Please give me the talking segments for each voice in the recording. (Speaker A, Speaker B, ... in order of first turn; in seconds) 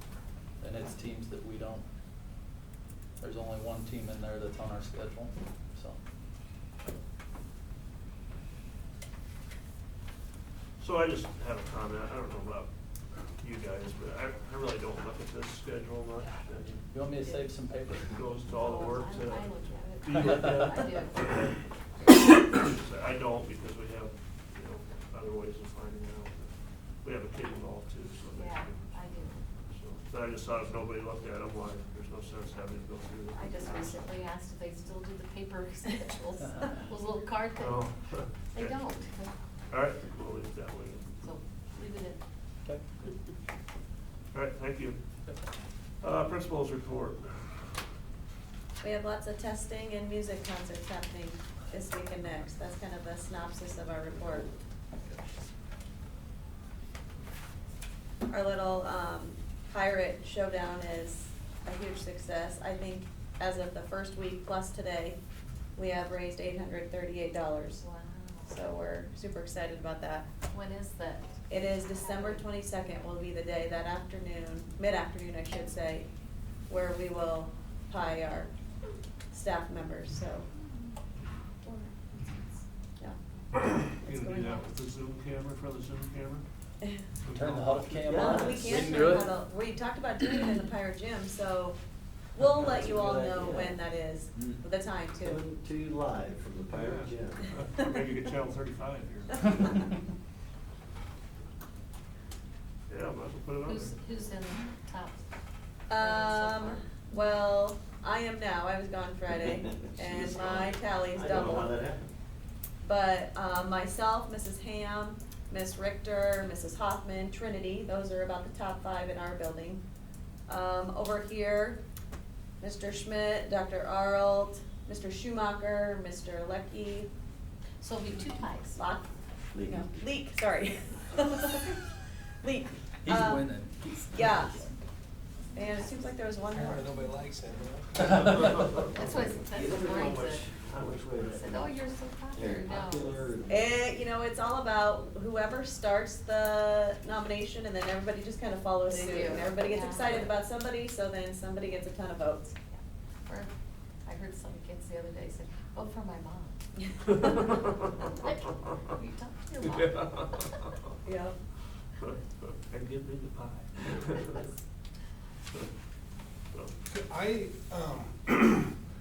Speaker A: 0.6-1.8, 3.2-6.0, 16.9-18.2, 87.3-89.3, 94.3-94.6, 133.0-134.8, 138.1-138.7
Speaker B: 10.8-12.7, 13.4-16.8, 18.1-21.6, 22.1-26.5, 27.0-28.9, 29.5-34.2, 37.5-38.8, 39.7-41.3, 44.3-45.0, 46.0-47.4, 84.0-86.4, 87.2-88.1, 96.9-99.8, 102.9-103.9, 111.3-111.6, 157.1-157.8, 159.6-160.7, 162.7-164.4
Speaker C: 17.2-17.4, 18.5-21.2, 28.3-29.4, 33.4-37.8, 38.5-39.3, 41.2-42.2, 67.8-68.6, 70.5-72.4, 103.7-105.2, 105.9-106.9, 127.8-128.8, 138.9-143.3, 148.9-150.3, 152.7-153.5, 154.1-156.6, 158.1-160.8
Speaker D: 48.8-54.5, 58.3-65.2, 65.8-67.8, 68.5-70.3, 71.5-76.1, 76.7-78.5, 79.3-80.5, 81.7-82.1, 83.0-84.6, 88.1-91.8, 92.3-95.4, 105.9-111.7, 112.8-119.8, 120.5-121.8, 122.6-127.1, 128.7-129.1, 129.6-133.4, 134.1-134.6, 135.5-136.9, 143.5-152.6, 161.0-161.3
Speaker E: 88.0-89.0, 92.7-93.8, 95.2-97.6, 109.4-112.1, 129.5-129.9, 138.9-141.8, 142.3-143.7
Speaker F: 136.5-138.8, 166.9-168.7